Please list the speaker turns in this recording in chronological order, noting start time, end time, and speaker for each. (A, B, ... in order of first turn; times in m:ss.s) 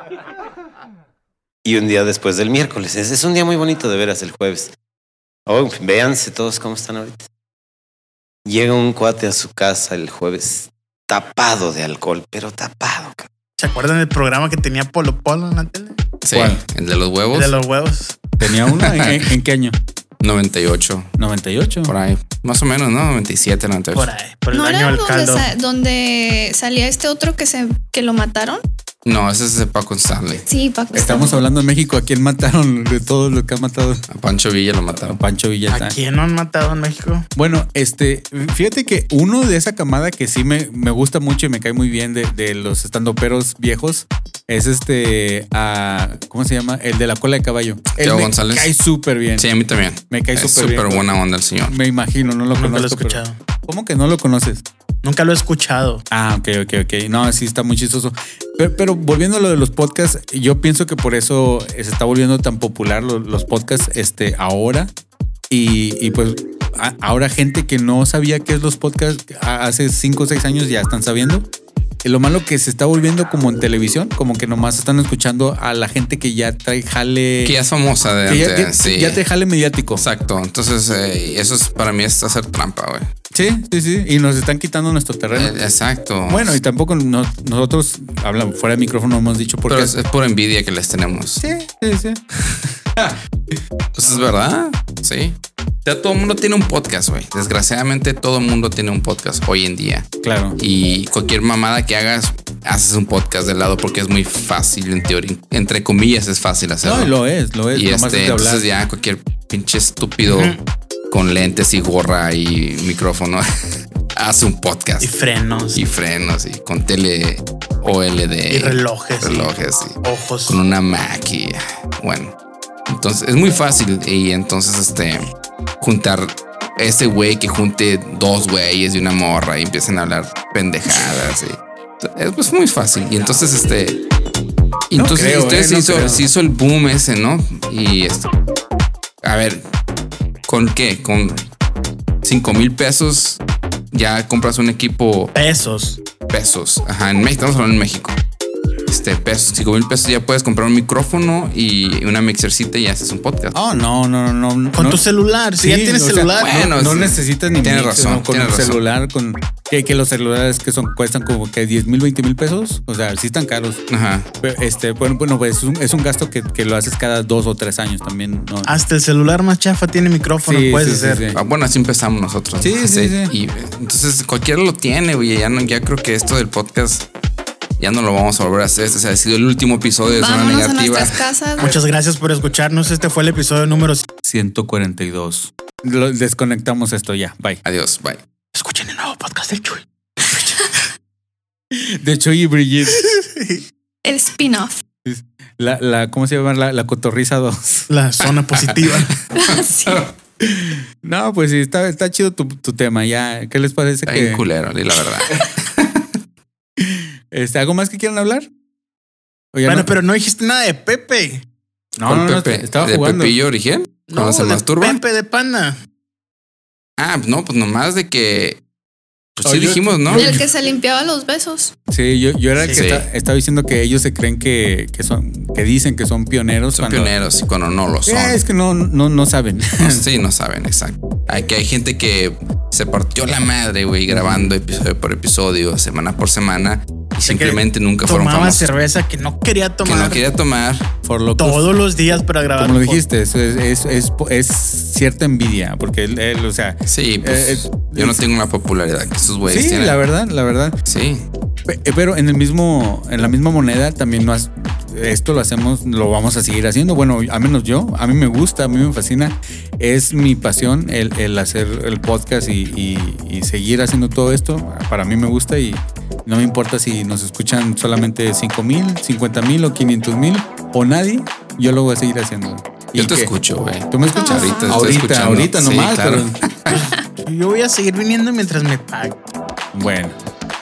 0:01.6-0:04.7 A
0:05.5-0:07.3 A
0:08.5-0:13.3 A
0:13.6-0:16.0 B
0:16.2-0:17.6 C
0:16.3-0:16.6 D
0:17.3-0:18.2 B
0:18.4-0:19.8 D
0:18.5-0:19.2 C
0:20.2-0:21.1 C
0:21.2-0:21.9 D
0:21.9-0:24.1 C
0:23.9-0:25.5 B
0:24.5-0:28.6 E
0:29.0-0:30.4 C
0:30.5-0:31.4 E
0:30.9-0:34.0 D
0:34.1-0:35.2 C
0:35.0-0:36.0 D
0:35.7-0:37.3 B
0:37.4-0:49.5 D
0:48.0-0:48.7 C
0:49.4-0:51.8 C
0:50.1-0:51.1 D
0:51.7-0:54.6 D
0:52.6-0:53.4 B
0:55.0-0:56.0 B
0:56.1-1:04.9 D
1:05.5-1:11.5 D
1:12.0-1:17.6 D
1:17.4-1:19.2 C
1:18.3-1:20.1 D
1:20.0-1:23.1 C
1:23.3-1:25.5 D
1:25.3-1:26.6 C
1:26.3-1:30.0 D
1:29.7-1:31.4 C
1:31.4-1:32.2 D
1:34.0-1:47.1 C
1:40.2-1:40.6 D
1:46.8-1:48.6 D
1:47.7-1:50.6 C
1:50.2-1:50.6 B
1:51.1-1:53.5 C
1:54.1-1:55.1 C
1:55.0-1:55.8 B
1:55.7-2:02.3 C
1:58.5-2:00.6 B
2:02.9-2:14.0 C
2:14.9-2:18.3 C
2:14.9-2:16.3 D
2:19.2-2:19.6 C
2:20.5-2:21.4 C
2:22.2-2:23.4 C
2:23.9-2:25.3 C
2:25.4-2:26.0 B
2:26.3-2:28.2 C
2:28.9-2:33.6 C
2:33.5-2:35.0 D
2:34.8-2:36.7 B
2:35.6-2:43.8 D
2:36.4-2:38.8 C
2:43.9-2:44.3 C
2:44.4-2:48.7 D
2:48.6-2:51.2 B
2:50.4-2:51.4 D
2:51.3-2:57.1 C
2:52.6-2:53.3 D
2:57.8-3:01.2 C
3:00.0-3:01.8 E
3:01.6-3:04.1 B
3:04.2-3:07.6 D
3:07.6-3:08.2 C
3:08.5-3:10.8 B
3:11.7-3:13.1 D
3:13.0-3:13.6 B
3:14.0-3:14.8 E
3:15.0-3:17.9 D
3:17.9-3:19.1 B
3:18.6-3:20.1 C
3:19.3-3:20.0 E
3:20.4-3:24.4 D
3:24.1-3:26.1 C
3:26.8-3:28.5 D
3:29.5-3:29.9 D
3:29.7-3:31.4 B
3:32.0-3:33.4 D
3:32.0-3:35.0 C
3:34.1-3:35.8 B
3:37.0-3:38.6 C
3:39.4-3:40.4 C
3:39.4-3:40.4 D
3:40.2-3:41.7 E
3:41.9-3:47.1 D
3:42.7-3:43.1 C
3:46.8-3:48.4 C
3:48.1-3:50.0 D
3:49.8-3:58.7 C
3:54.1-3:54.6 D
3:57.3-4:00.2 B
3:59.8-4:00.9 C
4:01.0-4:01.7 D
4:01.4-4:03.0 B
4:02.6-4:08.2 D
4:06.9-4:10.0 C
4:09.4-4:10.8 D
4:10.9-4:11.2 C
4:11.7-4:36.4 D
4:33.0-4:36.8 C
4:34.2-4:34.8 E
4:36.7-4:39.2 B
4:39.7-4:40.2 D